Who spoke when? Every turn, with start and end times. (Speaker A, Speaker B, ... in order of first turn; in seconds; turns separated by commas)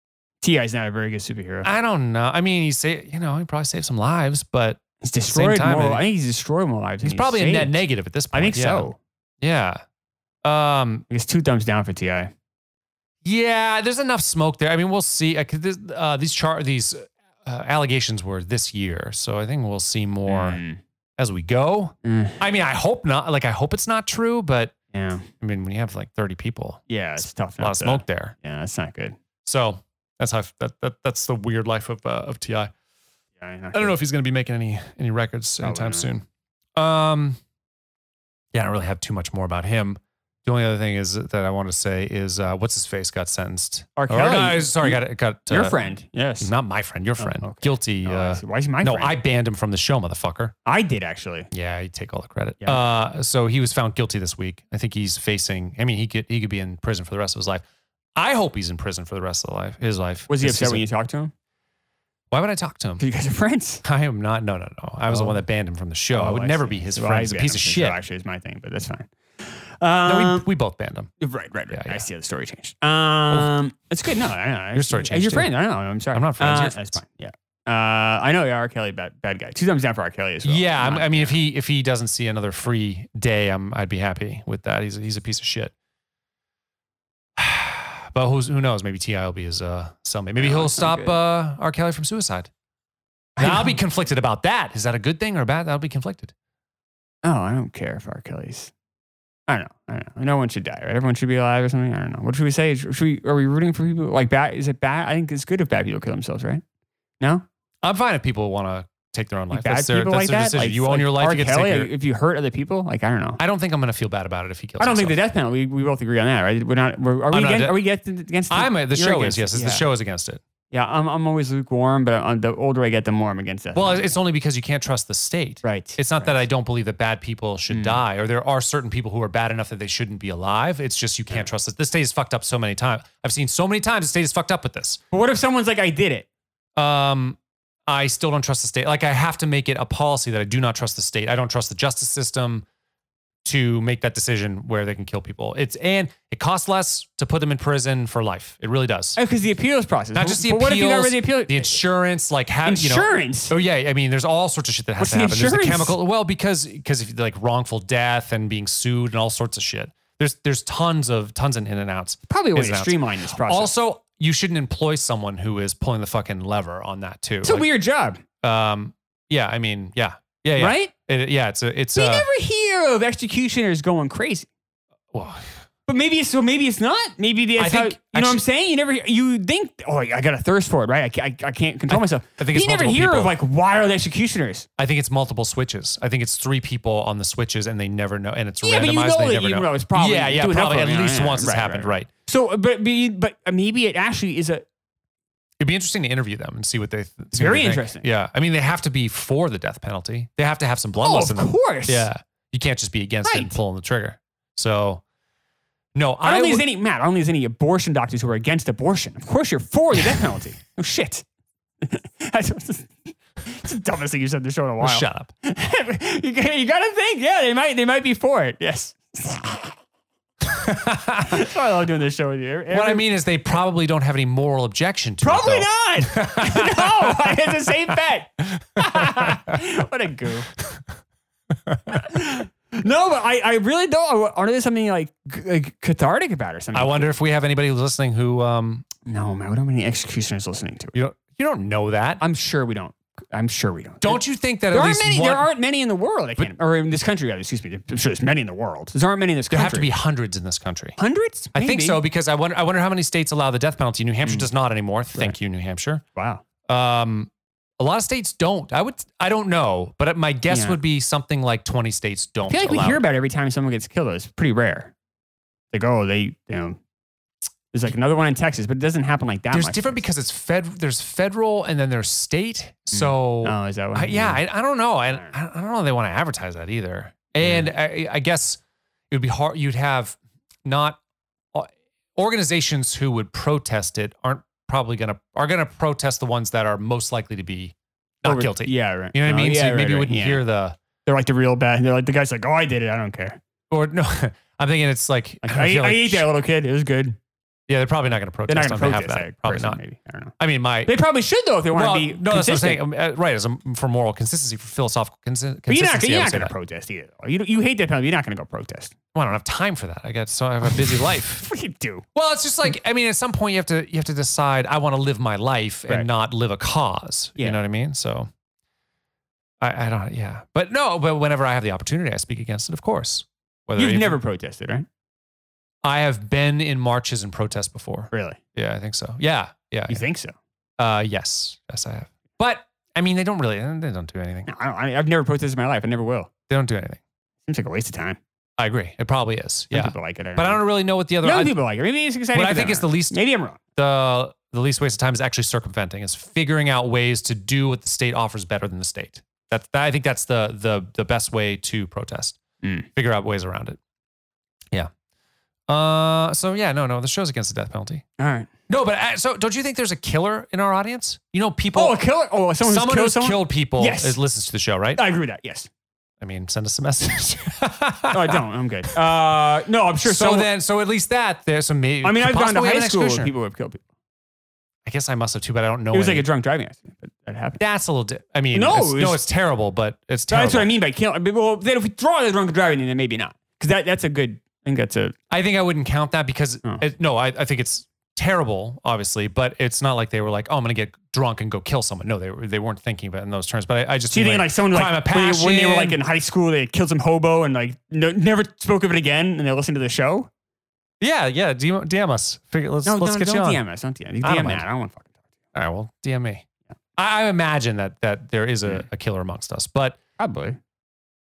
Speaker A: 0.4-1.7, Speaker B: 1.6-6.0, Speaker A: 5.0-7.8, Speaker B: 7.0-8.9, Speaker A: 8.3-9.0, Speaker B: 9.4-9.8, Speaker B: 10.4-11.1, Speaker A: 11.1-12.3, Speaker B: 13.2-20.6, Speaker A: 20.3-20.8, Speaker B: 21.2-24.8, Speaker A: 22.0-22.4, Speaker A: 24.9-25.3, Speaker B: 25.4-28.3, Speaker A: 26.9-29.2, Speaker B: 29.4-32.7, Speaker A: 33.4-33.9, Speaker B: 33.7-36.2, Speaker A: 35.6-36.1, Speaker B: 36.8-37.4, Speaker B: 38.5-45.8, Speaker A: 44.0-46.5, Speaker B: 46.4-50.5, Speaker A: 47.2-49.2, Speaker A: 50.7-51.5, Speaker B: 51.5-57.6, Speaker B: 58.2-60.8, Speaker A: 60.3-61.3, Speaker B: 62.3-63.0, Speaker A: 63.0-63.8, Speaker B: 63.8-68.0, Speaker A: 65.1-65.4, Speaker A: 66.1-70.5, Speaker B: 70.0-71.1, Speaker A: 71.2-81.4, Speaker B: 71.7-72.0, Speaker B: 74.8-75.5, Speaker B: 76.1-77.0, Speaker B: 80.4-85.7, Speaker B: 87.4-92.5, Speaker A: 90.4-91.2, Speaker A: 93.4-93.8, Speaker B: 93.4-96.3, Speaker A: 97.2-98.7, Speaker A: 99.5-106.6, Speaker A: 107.2-107.5, Speaker B: 107.8-111.9, Speaker A: 109.5-113.4, Speaker B: 113.4-115.2, Speaker A: 114.8-119.8, Speaker B: 117.3-117.8, Speaker B: 118.5-120.4, Speaker A: 120.7-124.1, Speaker B: 123.7-135.0, Speaker A: 125.6-126.4, Speaker A: 127.7-128.0, Speaker A: 135.1-136.3, Speaker B: 136.8-142.7, Speaker B: 143.4-149.2, Speaker A: 149.2-151.8, Speaker B: 150.1-167.7, Speaker A: 152.7-153.5, Speaker A: 155.0-156.0, Speaker A: 162.3-163.7, Speaker A: 167.4-168.2, Speaker B: 168.4-172.3, Speaker A: 170.6-170.9, Speaker A: 171.9-174.5, Speaker B: 175.1-175.5, Speaker A: 175.9-184.7, Speaker B: 177.6-178.4, Speaker B: 181.9-183.4, Speaker B: 184.8-192.1, Speaker A: 188.6-194.7, Speaker B: 195.6-205.0, Speaker A: 197.3-198.1, Speaker A: 201.0-202.1, Speaker A: 203.2-203.6, Speaker B: 205.9-206.7, Speaker A: 206.2-211.2, Speaker A: 211.8-219.8, Speaker B: 214.8-215.3, Speaker B: 220.5-221.5, Speaker A: 221.2-223.1, Speaker B: 222.7-227.5, Speaker A: 225.2-230.5, Speaker B: 228.5-229.5, Speaker B: 231.7-232.0, Speaker A: 231.9-237.1, Speaker B: 236.7-238.9, Speaker A: 239.1-240.9, Speaker B: 240.9-242.2, Speaker A: 242.2-249.9, Speaker B: 244.0-245.5, Speaker B: 249.5-251.0, Speaker A: 251.0-252.0, Speaker B: 251.5-256.0, Speaker A: 254.2-254.5, Speaker A: 256.1-256.4, Speaker B: 256.7-263.0, Speaker A: 260.5-260.8, Speaker A: 262.5-264.9, Speaker A: 265.7-266.8, Speaker A: 267.7-270.0, Speaker B: 269.5-281.0, Speaker A: 272.9-274.4, Speaker A: 277.4-277.7, Speaker B: 281.5-290.8, Speaker A: 288.2-290.4, Speaker A: 291.1-293.4, Speaker B: 293.7-296.3, Speaker A: 295.4-297.2, Speaker B: 297.7-299.8, Speaker A: 298.5-302.8, Speaker B: 300.4-300.9, Speaker B: 301.7-306.5, Speaker A: 305.7-308.9, Speaker B: 309.1-311.5, Speaker A: 310.7-312.0, Speaker B: 312.1-318.3, Speaker B: 319.6-324.2, Speaker A: 323.8-324.9, Speaker B: 325.8-330.0, Speaker A: 328.1-328.4, Speaker A: 329.9-330.4, Speaker B: 330.8-334.5, Speaker A: 334.5-336.3, Speaker B: 336.5-337.0, Speaker A: 337.4-338.2, Speaker B: 338.6-341.6, Speaker A: 339.7-340.6, Speaker A: 341.2-343.6, Speaker B: 342.3-343.2, Speaker B: 343.8-352.4, Speaker A: 352.6-352.9, Speaker B: 352.9-353.8, Speaker B: 355.7-358.0, Speaker A: 358.2-358.5, Speaker B: 358.7-362.0, Speaker A: 361.7-364.2, Speaker B: 362.6-365.0, Speaker A: 365.0-365.7, Speaker B: 366.2-368.4, Speaker A: 368.1-370.5, Speaker B: 370.1-373.3, Speaker A: 372.0-373.8, Speaker B: 374.9-376.2, Speaker A: 375.9-377.6, Speaker B: 377.6-380.7, Speaker A: 378.5-379.2, Speaker A: 380.3-385.1, Speaker B: 385.3-396.0, Speaker A: 394.1-400.3, Speaker B: 401.0-403.6, Speaker A: 402.9-405.1, Speaker B: 404.2-404.6, Speaker B: 405.5-406.4, Speaker B: 407.0-410.0, Speaker A: 410.2-410.6